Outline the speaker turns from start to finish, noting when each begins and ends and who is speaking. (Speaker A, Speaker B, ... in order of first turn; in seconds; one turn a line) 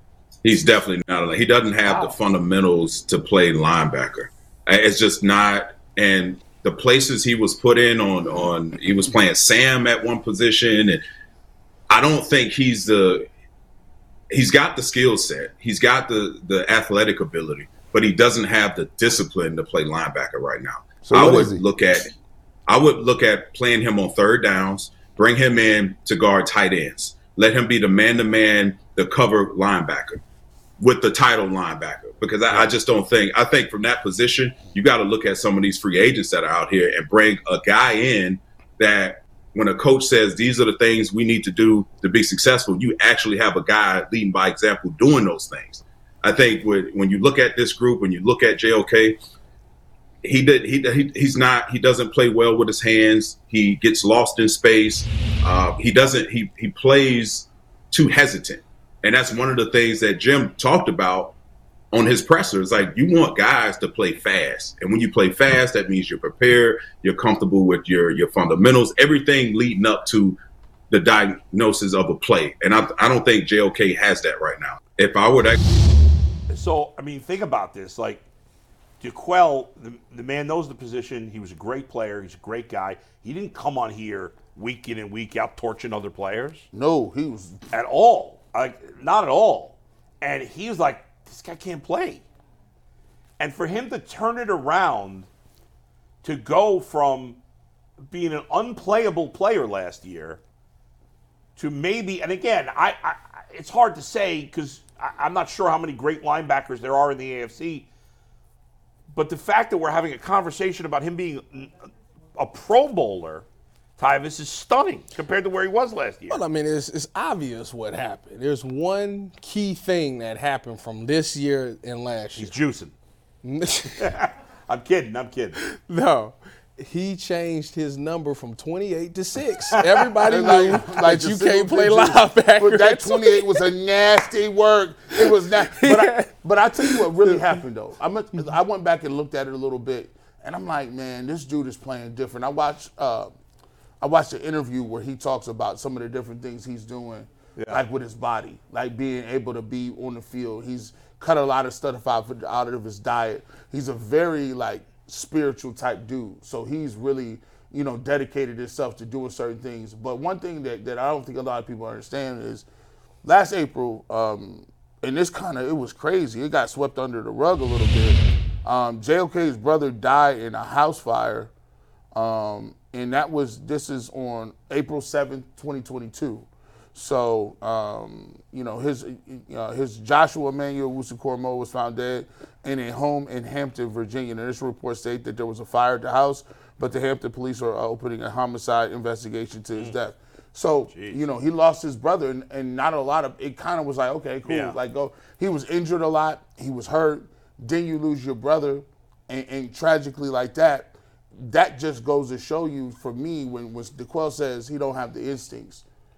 Speaker A: 0.4-11.0
Speaker A: 11.9-13.3
Speaker A: 14.3-22.1
Speaker B: 21.0-21.6
Speaker A: 22.7-30.2
Speaker A: 30.8-49.2
Speaker A: 50.2-61.3
Speaker A: 61.9-70.4
Speaker A: 70.9-75.6
Speaker C: 76.5-78.2
Speaker C: 79.0-86.7
Speaker B: 86.7-87.6
Speaker C: 87.7-92.2
Speaker C: 93.4-95.3
Speaker C: 96.2-97.4
Speaker C: 98.1-100.4
Speaker C: 101.6-107.9
Speaker C: 109.1-111.7
Speaker C: 112.3-113.5
Speaker C: 114.0-116.4
Speaker D: 116.3-122.5
Speaker C: 122.3-122.9
Speaker D: 123.4-124.2
Speaker C: 124.0-125.6
Speaker D: 125.6-133.7
Speaker C: 129.8-130.4
Speaker B: 130.2-143.3
Speaker D: 135.2-137.5
Speaker B: 144.0-162.7
Speaker C: 147.6-147.8
Speaker B: 163.2-171.5
Speaker B: 172.1-205.8
Speaker C: 190.9-191.2
Speaker C: 194.5-194.8